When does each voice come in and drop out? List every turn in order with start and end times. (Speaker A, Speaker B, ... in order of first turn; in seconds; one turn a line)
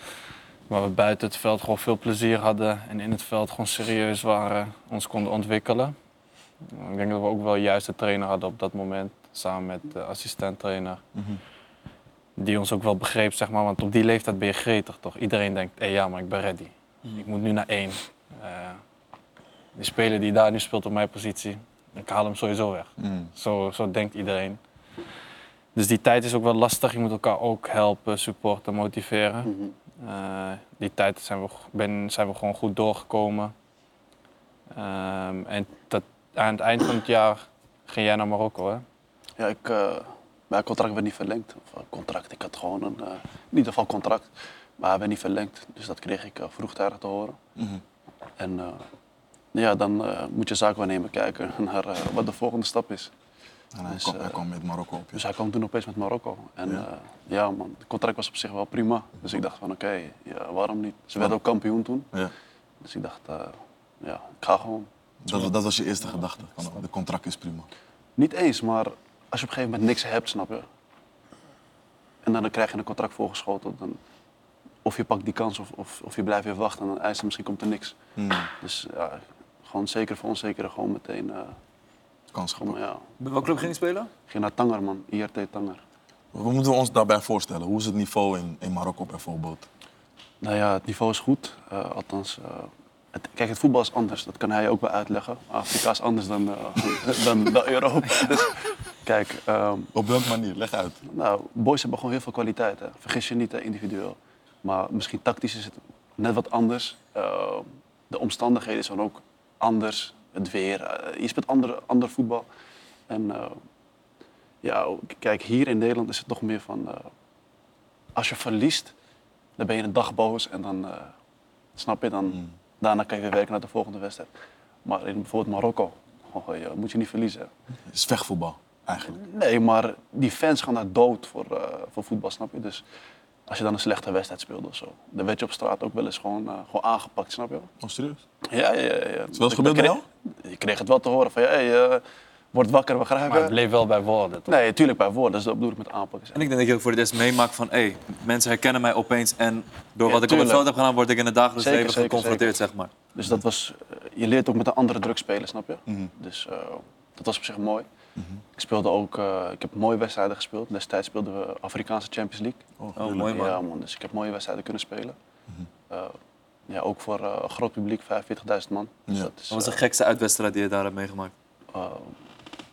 Speaker A: 0.7-6.0
Speaker A: 6.7-11.0
Speaker A: 12.4-18.8
Speaker A: 19.8-24.6
Speaker B: 23.0-23.3
Speaker A: 25.8-33.5
Speaker C: 29.4-29.7
Speaker A: 34.7-38.8
Speaker C: 39.4-47.4
Speaker B: 47.6-47.8
Speaker C: 48.4-48.8
Speaker C: 49.5-53.1
Speaker B: 53.7-55.2
Speaker C: 53.9-54.4
Speaker C: 55.1-62.1
Speaker C: 62.8-64.9
Speaker B: 65.2-67.7
Speaker C: 68.2-70.7
Speaker C: 72.2-74.0
Speaker C: 74.8-78.0
Speaker B: 78.2-78.5
Speaker C: 78.6-81.6
Speaker B: 82.3-82.8
Speaker C: 82.6-83.0
Speaker D: 83.2-84.1
Speaker C: 84.3-85.8
Speaker B: 86.3-89.7
Speaker C: 90.4-99.9
Speaker B: 99.9-101.0
Speaker C: 101.0-112.5
Speaker C: 113.1-113.6
Speaker C: 114.6-117.1
Speaker C: 118.1-118.9
Speaker C: 119.6-121.1
Speaker C: 121.8-124.3
Speaker C: 124.8-127.5
Speaker B: 127.9-129.2
Speaker C: 129.1-132.8
Speaker C: 133.5-137.7
Speaker B: 137.8-138.2
Speaker C: 138.4-143.6
Speaker B: 139.3-140.1
Speaker A: 143.3-144.6
Speaker C: 144.5-146.4
Speaker D: 146.3-152.9
Speaker C: 150.0-150.7
Speaker C: 151.6-152.6
Speaker C: 153.1-157.9
Speaker C: 158.6-162.6
Speaker B: 162.8-163.3
Speaker D: 163.0-163.6
Speaker C: 163.2-165.2
Speaker C: 165.9-166.2
Speaker C: 166.7-169.8
Speaker D: 169.5-171.3
Speaker C: 171.7-172.1